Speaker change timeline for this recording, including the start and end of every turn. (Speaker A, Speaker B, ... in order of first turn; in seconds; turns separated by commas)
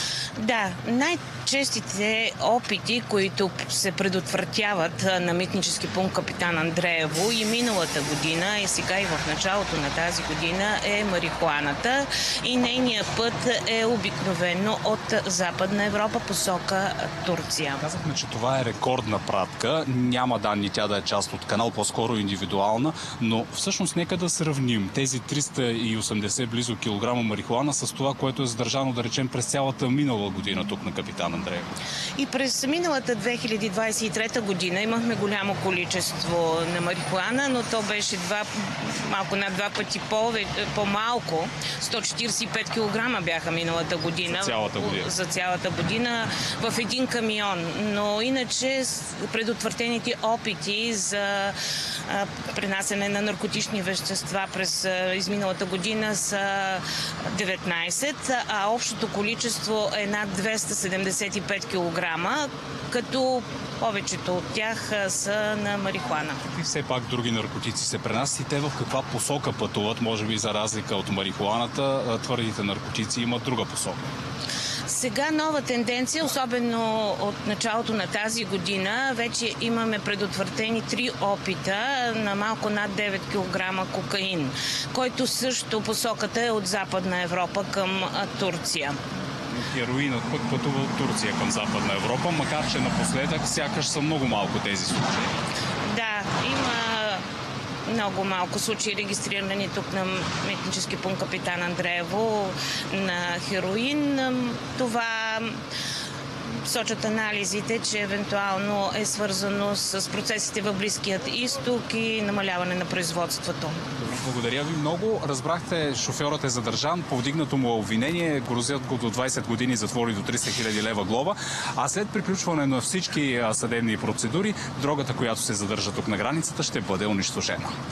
Speaker A: 0.4-17.8, Speaker B: 17.8-31.7, Speaker A: 32.2-51.5, Speaker B: 44.3-45.1, Speaker A: 52.1-66.4, Speaker B: 66.5-74.0, Speaker A: 74.9-89.0, Speaker B: 89.5-95.4, Speaker A: 95.9-97.2, Speaker A: 97.9-105.6, Speaker A: 106.6-113.8, Speaker B: 114.0-127.7